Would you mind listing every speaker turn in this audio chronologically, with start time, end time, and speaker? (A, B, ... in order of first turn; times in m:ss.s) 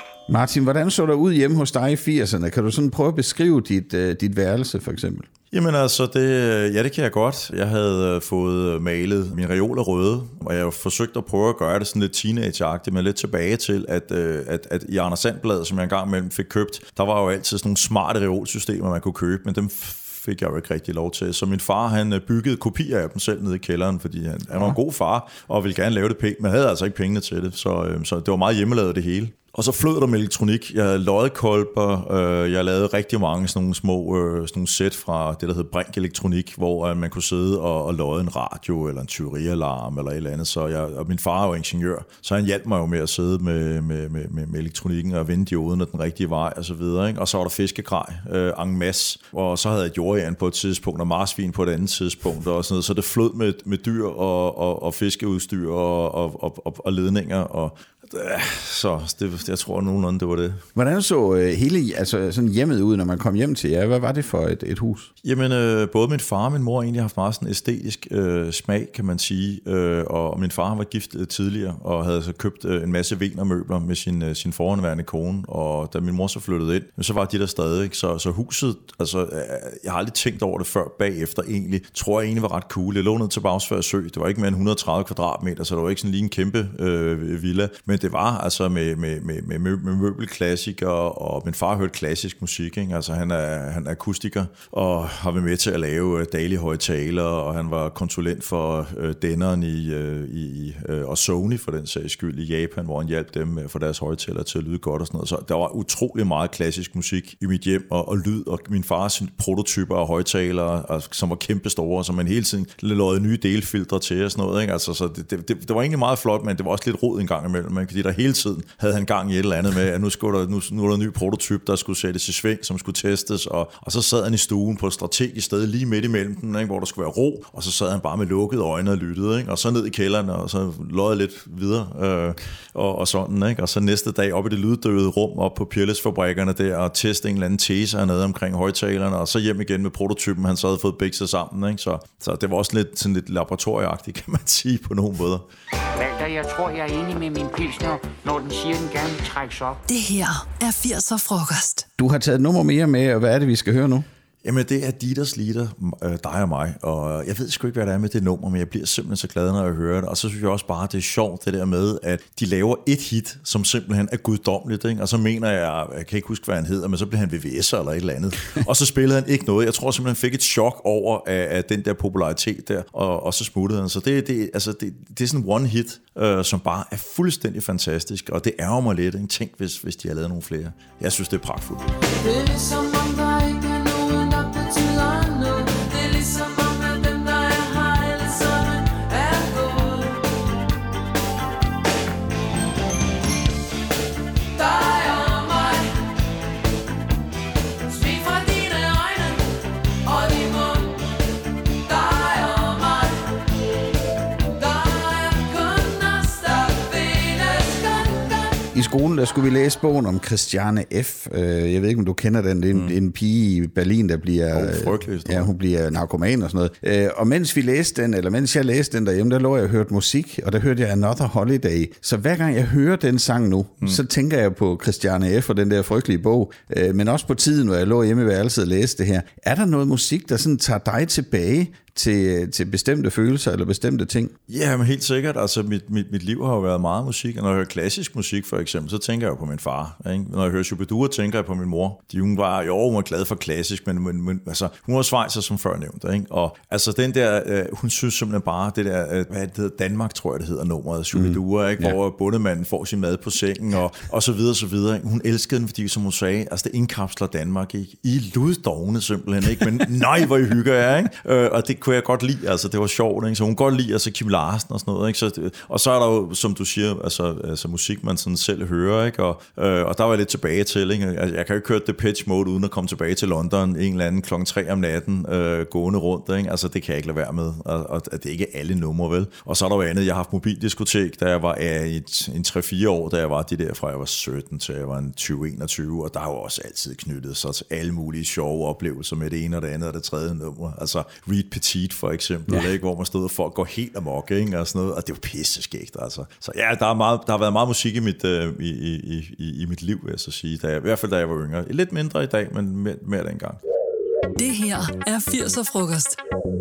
0:00.3-0:05.3 A
0:05.5-1:00.6 B
1:00.7-1:05.1 A
1:05.2-2:25.4 B
2:26.0-2:29.8 C
2:29.9-2:31.8 D
2:32.0-2:34.0 A
2:34.4-3:01.9 B
3:02.2-3:10.3 E
3:14.5-3:16.0 E
3:17.8-3:21.0 E
3:21.8-3:23.2 E
3:24.5-3:28.6 E
3:28.7-3:54.3 A
3:34.5-3:35.5 B
3:54.5-5:03.6 B
4:11.1-4:12.0 A
5:04.4-5:06.2 D